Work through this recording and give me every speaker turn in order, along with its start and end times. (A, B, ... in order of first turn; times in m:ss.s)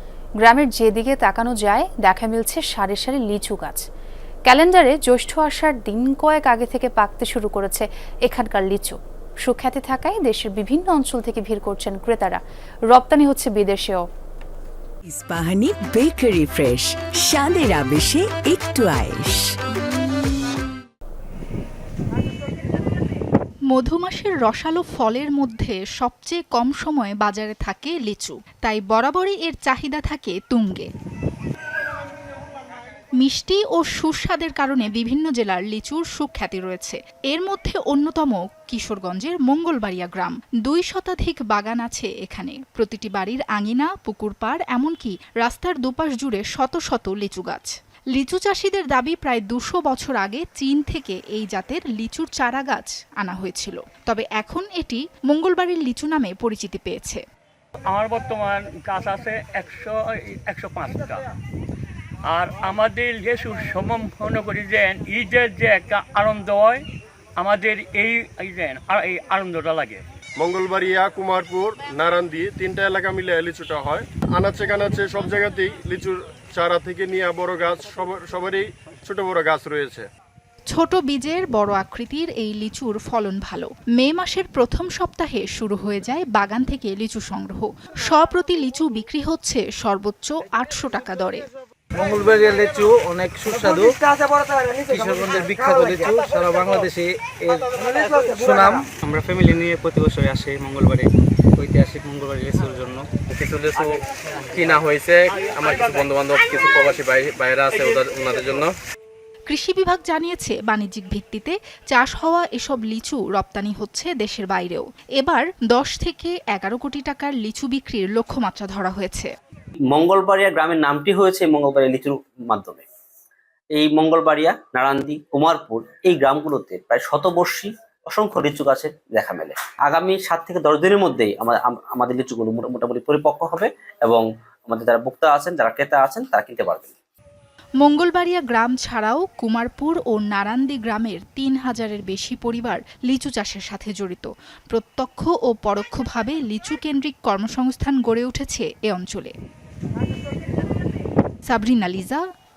0:00.4-0:03.8 A
0:04.5-0:14.0 A
0:15.1-0:19.5 B
0:23.7-0:30.9 C
0:33.2-0:57.2 C
0:57.9-1:01.2 D
1:02.3-1:06.8 D
1:07.4-1:10.0 D
1:10.4-1:20.1 E
1:20.7-1:31.5 C
1:32.0-1:34.0 F
1:34.8-1:38.9 F
1:39.0-1:43.2 G
1:43.3-1:44.0 H
1:44.5-1:48.7 H
1:49.5-1:59.3 C
1:59.9-2:02.8 I
2:03.8-2:16.9 I
2:17.8-2:29.3 C
2:31.5-2:32.2 C